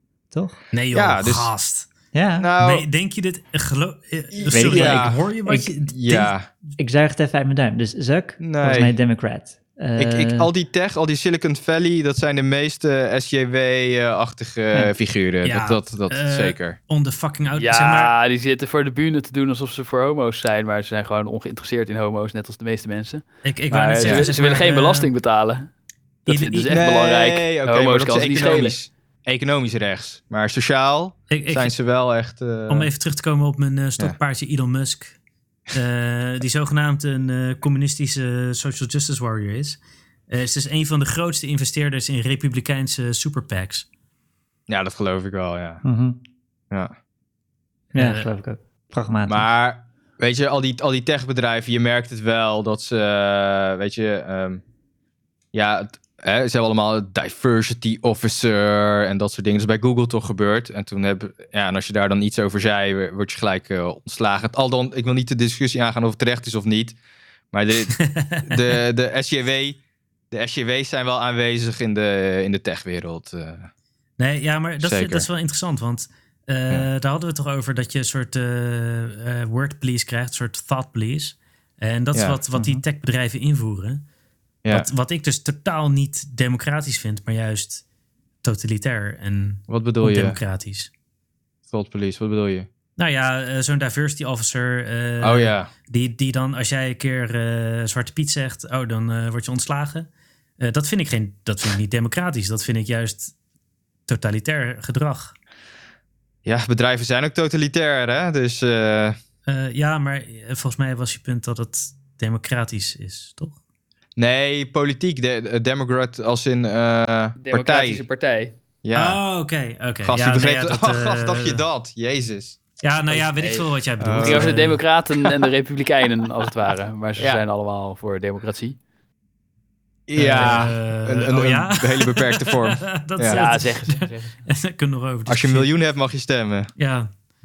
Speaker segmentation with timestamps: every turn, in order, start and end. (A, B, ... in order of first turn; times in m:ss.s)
0:00.3-0:00.6 A
0:00.7-0:01.9 B
0:00.9-0:01.5 C
0:02.1-0:02.5 A
0:02.4-0:02.9 C
0:02.6-0:06.3 B
0:04.3-0:05.2 C
0:04.5-0:05.7 A
0:05.9-0:06.5 C
0:06.8-0:10.5 A
0:08.4-0:08.9 C
0:10.0-0:16.8 C
0:15.4-0:18.1 B
0:17.6-0:25.7 D
0:23.4-0:25.1 B
0:24.0-0:24.3 C
0:26.2-0:28.8 D
0:26.3-0:26.8 B
0:26.7-0:32.9 C
0:31.3-0:31.7 B
0:32.7-0:35.2 B
0:35.7-0:39.8 B
0:40.3-0:43.8 B
0:44.7-0:45.8 C
0:45.8-0:46.2 A
0:47.9-0:49.5 A
0:48.0-0:48.3 B
0:49.3-0:54.6 C
0:55.5-1:07.0 C
1:07.5-1:09.8 C
1:08.0-1:08.7 B
1:10.3-1:13.7 C
1:14.2-1:24.0 B
1:14.8-1:15.3 C
1:22.1-1:22.4 C
1:22.5-1:22.8 A
1:24.7-1:27.8 B
1:28.4-1:30.9 B
1:29.7-1:30.4 C
1:31.7-1:32.7 C
1:33.0-1:40.1 B
1:35.2-1:35.7 C
1:40.6-1:43.3 B
1:44.1-1:45.3 B
1:46.4-1:49.2 C
1:49.5-1:53.6 B
1:54.2-1:58.0 C
1:57.4-1:58.5 D
1:58.8-1:59.2 C
1:58.9-2:01.6 B
2:00.0-2:02.6 C
2:02.8-2:04.8 B
2:03.2-2:03.7 D
2:04.0-2:04.6 C
2:04.2-2:08.8 D
2:07.2-2:07.4 C
2:10.1-2:13.4 C
2:10.1-2:15.7 B
2:10.4-2:10.6 D
2:13.3-2:14.4 D
2:15.3-2:16.7 C
2:16.8-2:17.1 B